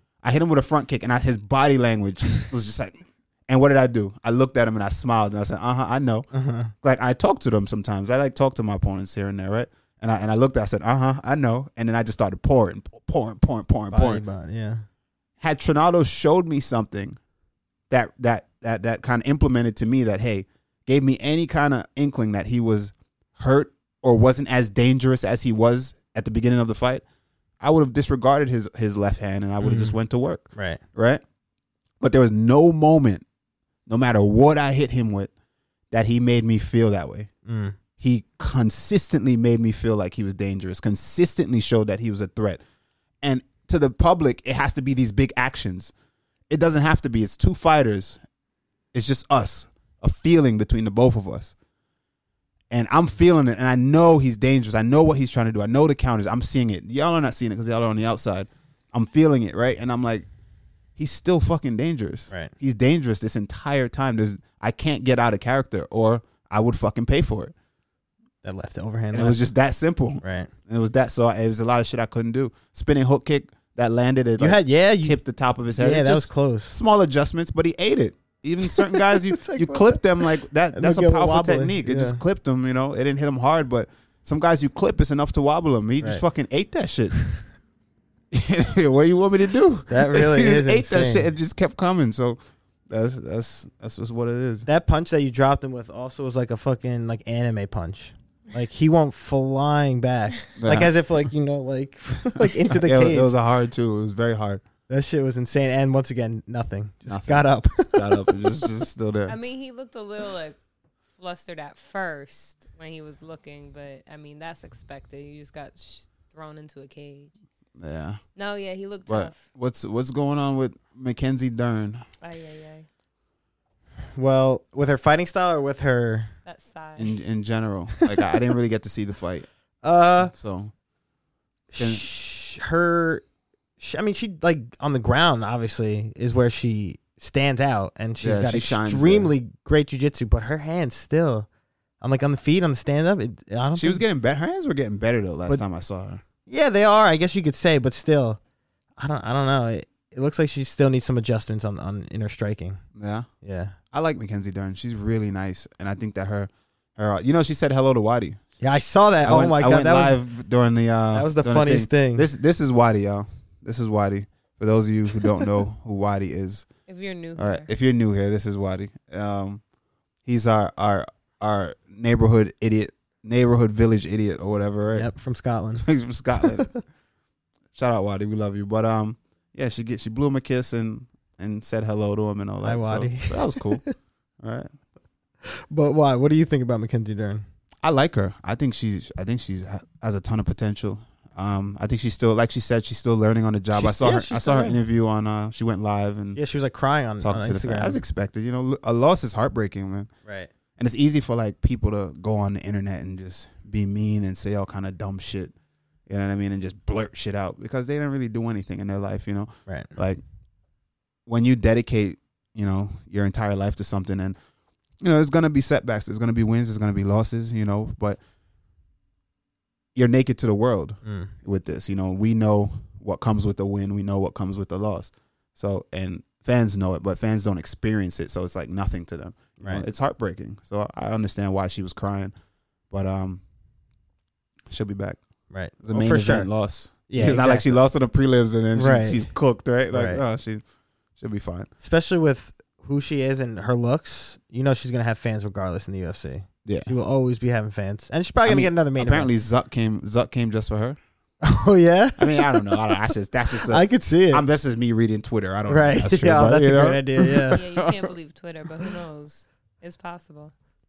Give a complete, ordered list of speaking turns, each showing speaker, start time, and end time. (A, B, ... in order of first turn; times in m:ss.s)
0:00.2-0:06.3 A
0:06.3-0:06.7 B
0:06.8-0:14.2 A
0:13.9-0:14.8 B
0:15.4-0:17.2 A
0:17.9-0:27.0 A
0:27.6-0:31.2 A
0:29.6-0:30.0 B
0:30.6-0:30.8 B
0:32.0-0:33.2 A
0:33.9-0:35.3 A
0:35.9-0:37.3 A
0:37.4-0:37.8 B
0:38.0-0:42.6 A
0:43.2-0:45.9 A
0:46.5-0:48.2 A
0:48.9-0:51.5 A
0:52.7-1:00.3 A
1:01.0-1:07.5 A
1:08.4-1:09.4 B
1:09.1-1:27.2 A
1:10.2-1:10.5 B
1:14.4-1:15.2 B
1:15.7-1:16.8 B
1:18.6-1:22.2 B
1:28.3-1:34.7 A
1:29.9-1:31.3 B
1:34.6-1:43.3 B
1:40.6-1:40.9 A
1:42.4-1:44.6 A
1:44.9-1:48.3 B
1:47.1-1:49.4 A
1:49.2-1:50.6 C
1:51.2-1:57.3 C
1:57.8-1:58.2 A
1:58.4-1:59.4 C
1:59.1-2:02.0 A
2:02.2-2:02.9 C
2:04.2-2:06.3 B
2:06.4-2:07.2 C
2:07.0-2:09.5 A
2:09.8-2:10.3 B
2:10.2-2:10.7 A
2:11.7-2:13.2 B
2:11.8-2:12.0 A
2:13.8-2:21.5 B
2:18.2-2:19.3 A
2:22.0-2:24.0 B
2:23.8-2:26.2 A
2:26.4-2:28.4 B
2:29.0-2:32.8 B
2:33.0-2:33.3 A
2:33.4-2:33.8 B
2:33.9-2:38.4 A
2:38.6-2:40.2 B
2:39.2-2:46.7 A
2:41.1-2:42.3 B
2:46.9-2:47.7 C
2:47.4-2:49.6 A
2:50.2-2:55.1 A
2:54.9-2:55.9 B
2:55.8-2:56.8 A
2:56.4-2:56.8 B
2:57.7-3:03.8 A
3:02.6-3:03.9 B
3:04.4-3:04.7 A
3:05.4-3:07.4 B
3:07.8-3:16.4 A
3:13.7-3:14.8 B
3:16.4-3:18.0 B
3:17.2-3:20.1 A
3:20.2-3:20.5 B
3:20.8-3:25.5 A
3:26.1-3:30.2 A
3:29.7-3:29.9 B
3:31.2-3:34.4 A
3:35.0-3:38.2 A
3:39.9-3:52.3 A
3:41.0-3:41.3 B
3:49.6-3:49.8 B
3:52.9-3:53.4 A
3:54.7-3:55.2 A
3:55.5-3:56.5 B
3:55.8-4:00.6 A
3:57.1-3:57.8 B
3:58.7-3:59.2 B
3:59.9-4:00.2 B
4:01.2-4:01.7 A
4:01.8-4:09.3 B
4:06.6-4:06.9 A
4:08.4-4:11.0 A
4:11.4-4:12.8 B
4:12.2-4:18.1 A
4:13.6-4:14.4 B
4:15.7-4:17.6 B
4:17.5-4:20.5 C